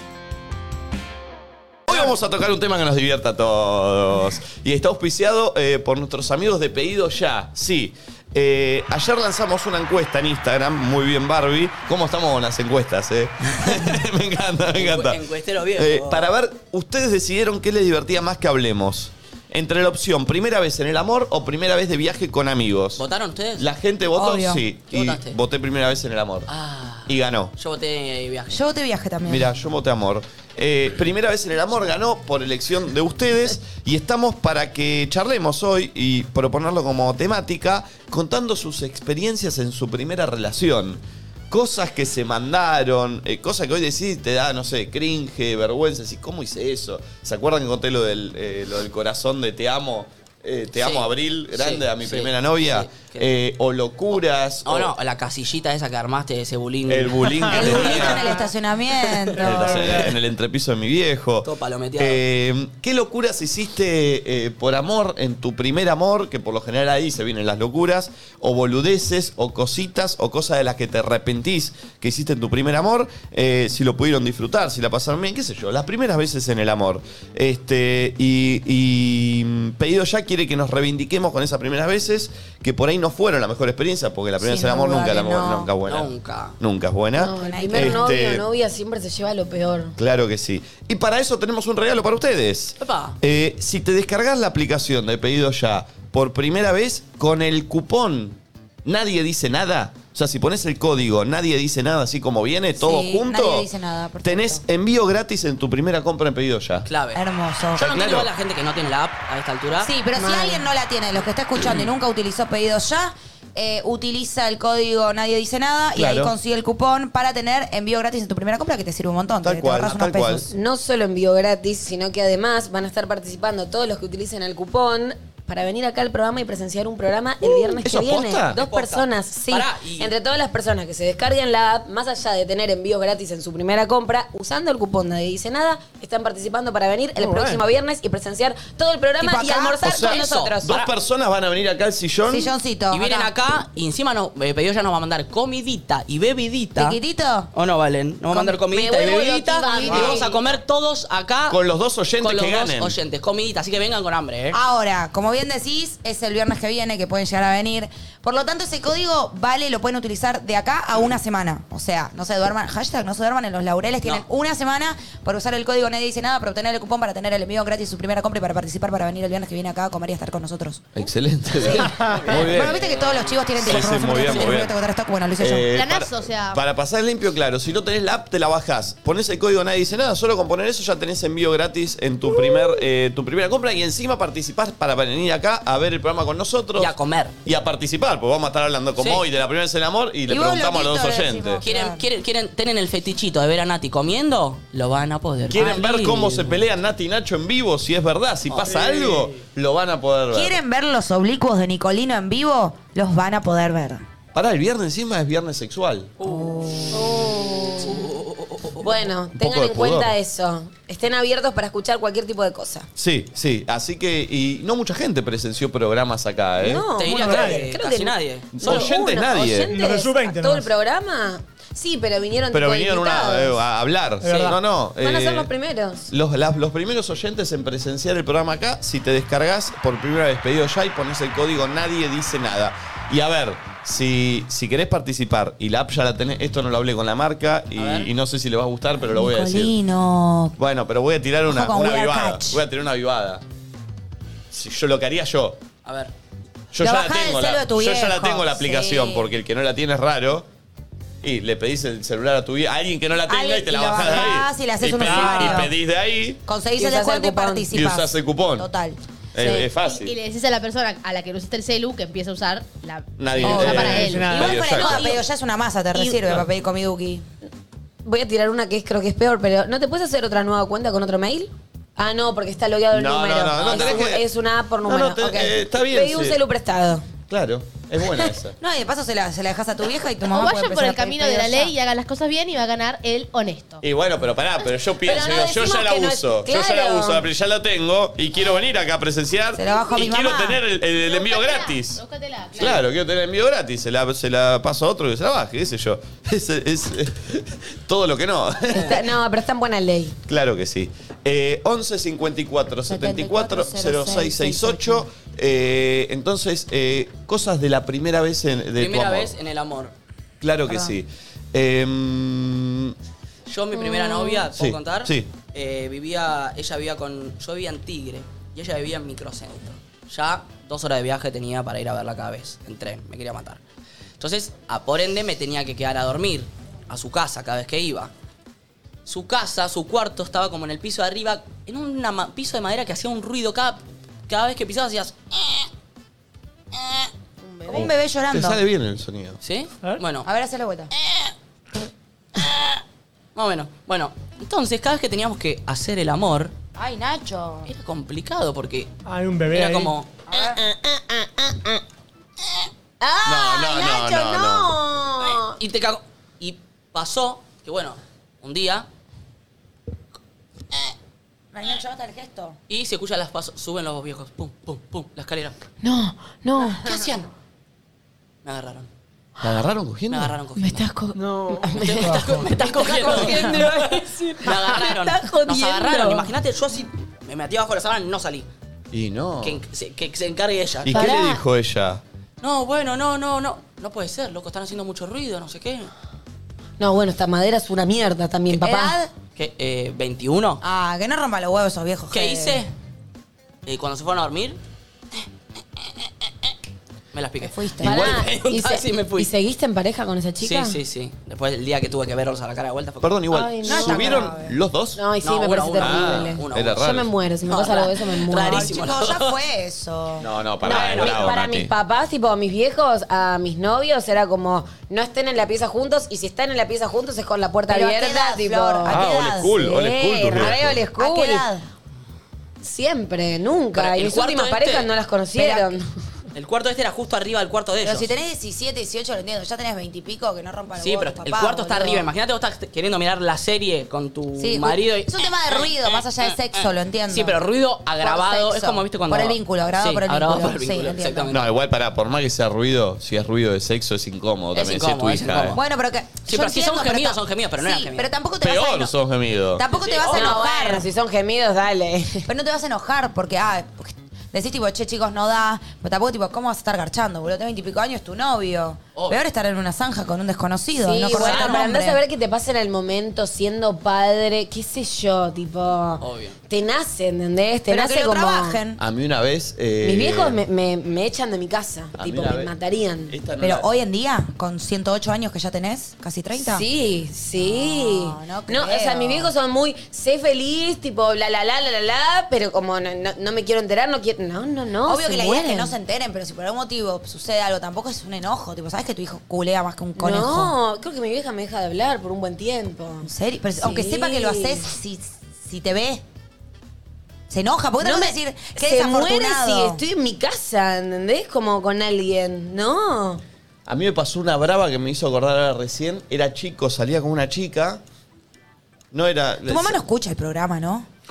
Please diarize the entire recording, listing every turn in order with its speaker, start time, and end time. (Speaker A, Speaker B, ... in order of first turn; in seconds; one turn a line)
Speaker A: 1.9-15.2
Speaker B: 14.7-16.3
Speaker A: 15.7-23.0
Speaker B: 23.0-23.6
Speaker A: 23.6-26.5
Speaker C: 24.1-24.6
Speaker B: 24.9-25.4
Speaker B: 26.5-28.6
Speaker A: 27.1-27.5
Speaker C: 28.5-29.5
Speaker A: 29.2-54.9
Speaker B: 50.8-53.3
Speaker B: 54.6-58.1
Speaker A: 56.9-58.2
Speaker C: 57.5-60.0
Speaker A: 59.4-88.4
Speaker D: 59.5-60.2
Speaker B: 61.4-62.2
Speaker C: 84.4-85.7
Speaker B: 85.8-86.5
Speaker E: 87.1-89.9
Speaker C: 87.4-88.1
Speaker A: 90.0-103.7
Speaker B: 92.8-93.2
Speaker C: 102.8-104.6
Speaker A: 104.2-106.9
Speaker B: 106.9-107.2
Speaker C: 107.1-107.8
Speaker A: 107.8-108.3
Speaker B: 107.8-109.9
Speaker C: 109.8-120.5
Speaker E: 110.1-110.6
Speaker A: 116.0-116.3
Speaker A: 119.4-120.5
Speaker E: 120.5-140.6
Speaker A: 127.4-128.6
Speaker B: 128.5-130.1
Speaker D: 137.2-137.6
Speaker C: 139.2-140.8
Speaker B: 139.8-140.6
Speaker A: 139.8-142.5
Speaker C: 142.3-143.3
Speaker B: 142.9-147.0
Speaker C: 146.8-147.5
Speaker B: 147.5-151.6
Speaker C: 148.3-148.6
Speaker E: 148.7-150.5
Speaker A: 151.5-152.9
Speaker B: 152.2-154.6
Speaker C: 154.5-170.8
Speaker A: 170.9-172.8
Speaker C: 171.6-175.7
Speaker B: 172.1-174.5
Speaker A: 173.6-174.7
Speaker A: 175.4-186.9
Speaker F: 175.7-176.6
Speaker B: 186.8-187.3
Speaker A: 187.4-191.6
Speaker B: 189.0-189.2
Speaker C: 190.3-192.0
Speaker B: 191.6-196.6
Speaker A: 195.5-200.6
Speaker D: 198.6-199.3
Speaker C: 200.3-204.0
Speaker A: 204.3-206.2
Speaker B: 206.2-206.5
Speaker C: 206.2-207.2
Speaker E: 206.9-208.0
Speaker B: 207.8-208.8
Speaker E: 208.8-212.9
Speaker A: 209.3-210.1
Speaker A: 213.0-216.8
Speaker E: 216.6-223.6
Speaker B: 217.0-218.9
Speaker D: 217.1-217.7
Speaker A: 218.5-219.7
Speaker D: 219.6-220.7
Speaker A: 222.5-225.5
Speaker D: 224.2-224.6
Speaker E: 225.0-226.1
Speaker A: 226.1-239.8
Speaker B: 237.7-238.1
Speaker C: 239.1-240.5
Speaker A: 240.6-243.4
Speaker C: 241.5-242.6
Speaker A: 244.5-245.6
Speaker B: 245.8-246.1
Speaker A: 246.7-250.4
Speaker C: 246.8-249.3
Speaker A: 251.2-256.4
Speaker C: 253.3-255.7
Speaker D: 255.0-255.6
Speaker C: 256.4-259.0
Speaker E: 256.8-257.7
Speaker A: 257.7-258.7
Speaker A: 259.3-260.1
Speaker E: 259.4-259.6
Speaker F: 259.7-264.4
Speaker A: 263.2-265.2
Speaker C: 263.4-267.2
Speaker D: 263.7-264.6
Speaker E: 264.5-265.2
Speaker E: 268.0-277.1
Speaker A: 272.9-274.2
Speaker B: 273.6-274.0
Speaker A: 274.9-276.4
Speaker A: 277.3-278.6
Speaker C: 278.6-281.7
Speaker F: 280.3-283.8
Speaker A: 283.8-292.0
Speaker E: 285.0-287.2
Speaker C: 289.5-290.6
Speaker F: 290.9-292.9
Speaker A: 292.5-299.0
Speaker E: 298.7-300.1
Speaker A: 300.2-309.3
Speaker C: 302.9-305.0
Speaker B: 308.8-309.9
Speaker A: 310.4-312.9
Speaker C: 310.7-310.9
Speaker B: 313.5-323.6
Speaker E: 313.7-314.4
Speaker A: 314.5-315.3
Speaker B: 324.2-328.1
Speaker B: 329.0-335.6
Speaker C: 337.6-338.6
Speaker A: 337.7-339.4
Speaker B: 339.4-340.3
Speaker C: 340.2-340.9
Speaker B: 342.4-342.8
Speaker B: 343.3-346.5
Speaker C: 346.8-347.7
Speaker B: 347.7-348.9
Speaker D: 349.1-349.9
Speaker B: 349.5-350.1
Speaker C: 350.3-350.6
Speaker E: 350.3-351.8
Speaker E: 353.0-355.6
Speaker A: 353.2-354.8
Speaker B: 355.6-358.9
Speaker C: 361.5-362.6
Speaker B: 362.7-365.6
Speaker E: 365.8-366.8
Speaker B: 366.8-367.3
Speaker B: 368.4-368.9
Speaker A: 369.4-370.4
Speaker B: 370.1-370.9
Speaker E: 370.6-376.3
Speaker D: 371.1-372.5
Speaker B: 371.7-373.8
Speaker D: 373.1-374.6
Speaker B: 374.4-378.5
Speaker A: 378.9-379.6
Speaker B: 379.4-381.1
Speaker A: 380.8-382.0
Speaker E: 380.9-381.4
Speaker B: 382.4-385.9
Speaker E: 386.8-388.9
Speaker C: 388.5-389.1
Speaker B: 389.4-390.6
Speaker C: 390.6-392.6
Speaker B: 392.1-392.7
Speaker B: 393.6-394.6
Speaker B: 397.1-399.3
Speaker C: 397.4-398.1
Speaker A: 397.8-398.3
Speaker E: 397.8-400.8
Speaker B: 400.4-403.2
Speaker A: 403.0-405.0
Speaker E: 403.3-404.3
Speaker C: 403.6-404.5
Speaker E: 404.9-408.7
Speaker B: 405.2-406.8
Speaker A: 405.8-407.1
Speaker B: 407.5-409.4
Speaker C: 408.5-410.3
Speaker A: 410.2-411.7
Speaker E: 410.6-419.0
Speaker B: 410.6-411.2
Speaker C: 417.7-419.6
Speaker A: 418.9-420.8
Speaker E: 419.6-421.5
Speaker C: 420.4-421.6
Speaker E: 422.6-425.9
Speaker B: 423.7-424.9
Speaker C: 425.3-425.8
Speaker B: 426.3-428.1
Speaker C: 427.8-432.1
Speaker B: 430.7-436.0
Speaker C: 434.4-437.4
Speaker B: 437.1-441.4
Speaker C: 438.0-441.3
Speaker A: 441.3-445.6
Speaker B: 444.5-445.6
Speaker C: 445.5-448.9
Speaker B: 446.3-448.1
Speaker A: 448.4-449.7
Speaker C: 449.6-450.9
Speaker B: 449.7-450.5
Speaker E: 450.1-452.2
Speaker C: 452.3-462.0
Speaker B: 458.9-459.2
Speaker E: 460.8-468.6
Speaker B: 461.1-461.6
Speaker B: 466.0-466.4
Speaker C: 467.7-468.8
Speaker A: 468.8-470.4
Speaker E: 469.8-473.1
Speaker A: 471.9-472.5
Speaker A: 473.1-473.7
Speaker C: 473.4-476.6
Speaker E: 476.4-485.7
Speaker C: 477.4-479.3
Speaker C: 484.9-490.5
Speaker E: 489.9-494.7
Speaker C: 493.0-496.0
Speaker C: 497.3-499.8
Speaker E: 497.8-503.2
Speaker A: 503.6-507.8
Speaker A: 508.9-509.8
Speaker C: 509.4-510.9